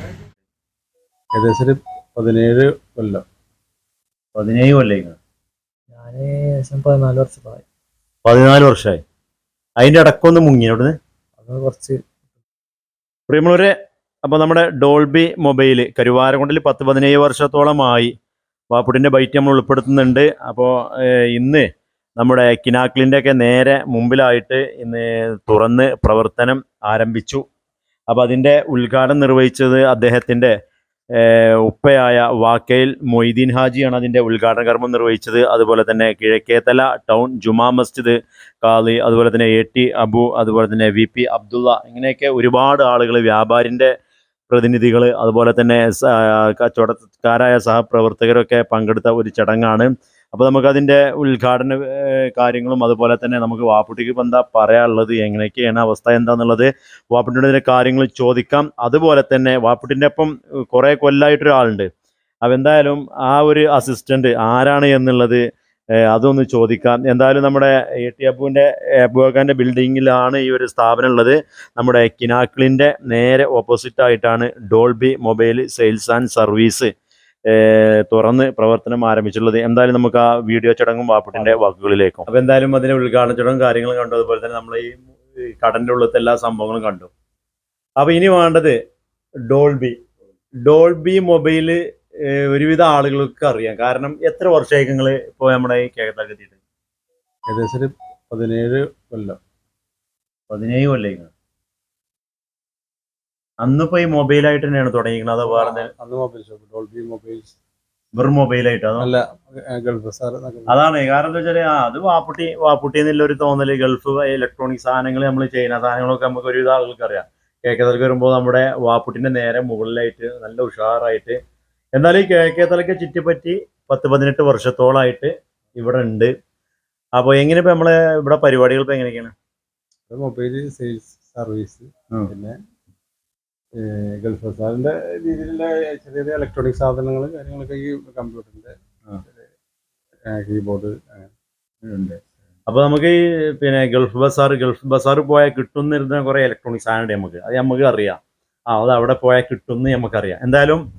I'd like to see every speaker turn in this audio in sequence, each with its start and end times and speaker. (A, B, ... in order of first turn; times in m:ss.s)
0:01.4-0:03.2 A
0:04.4-0:05.2 B
0:05.9-0:07.6 C
0:08.2-0:09.0 B
0:09.8-0:10.9 B
0:11.4-0:12.0 C
0:13.3-0:13.7 B
0:14.2-0:18.1 B
0:18.7-0:21.6 B
0:22.2-0:27.4 B
0:28.1-0:30.5 B
0:31.2-0:43.9 B
0:44.5-1:01.9 B
1:02.4-1:05.4 B
1:06.1-1:16.9 B
1:17.5-1:27.1 B
1:21.3-1:21.6 A
1:28.0-1:28.8 B
1:29.5-1:30.0 B
1:30.7-1:31.8 B
1:32.3-1:36.6 B
1:37.5-1:39.4 A
1:40.5-1:41.3 B
1:43.6-1:45.9 B
1:45.5-1:47.6 A
1:48.2-1:49.1 B
1:49.0-1:50.8 A
1:50.7-2:01.4 B
2:02.0-2:06.3 B
2:07.2-2:09.3 B
2:10.1-2:12.6 A
2:13.8-2:19.4 A
2:20.3-2:21.3 A
2:21.8-2:28.2 B
2:28.7-2:30.8 B